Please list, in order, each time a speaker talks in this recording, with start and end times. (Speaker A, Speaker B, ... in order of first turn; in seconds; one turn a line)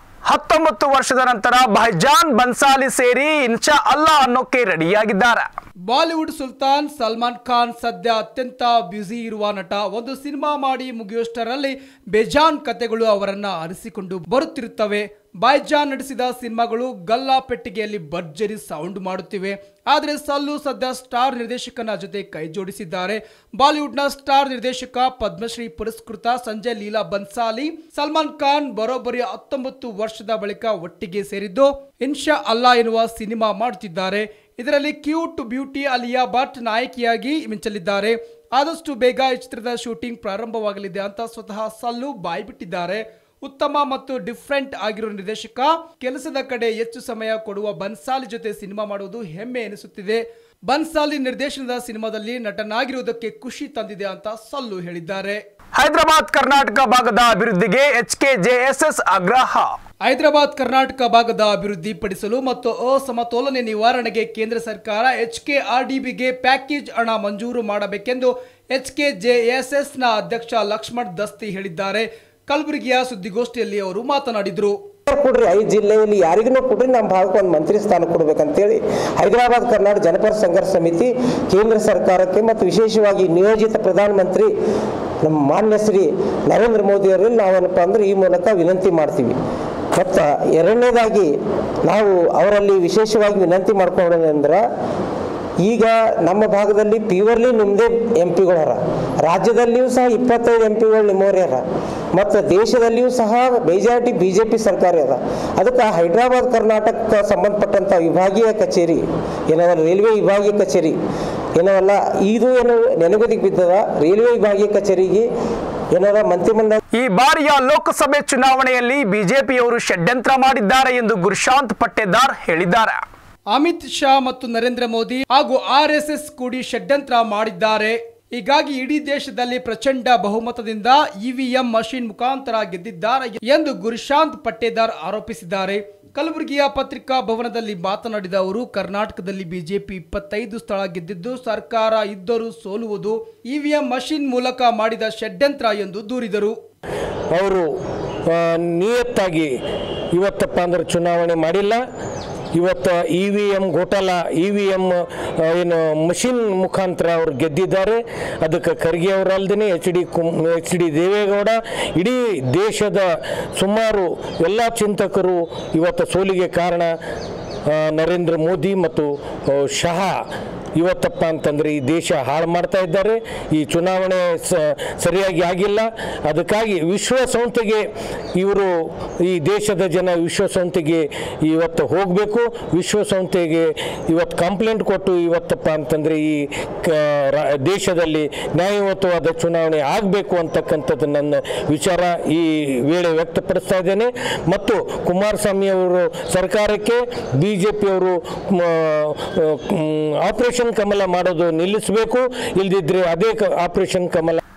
Speaker A: 0.3-5.5
Speaker B: 5.9-55.4
Speaker A: 55.8-59.7
Speaker B: 60.0-74.8
Speaker C: 75.1-84.5
Speaker C: 85.2-89.4
Speaker C: 89.9-91.3
Speaker C: 91.8-94.7
Speaker C: 95.6-111.0
Speaker C: 111.6-115.3
Speaker C: 115.9-116.8
Speaker A: 116.9-123.0
Speaker B: 123.5-146.6
Speaker D: 147.3-147.6
Speaker D: 148.2-149.5
Speaker D: 150.1-151.8
Speaker D: 152.5-166.9
Speaker D: 167.7-204.4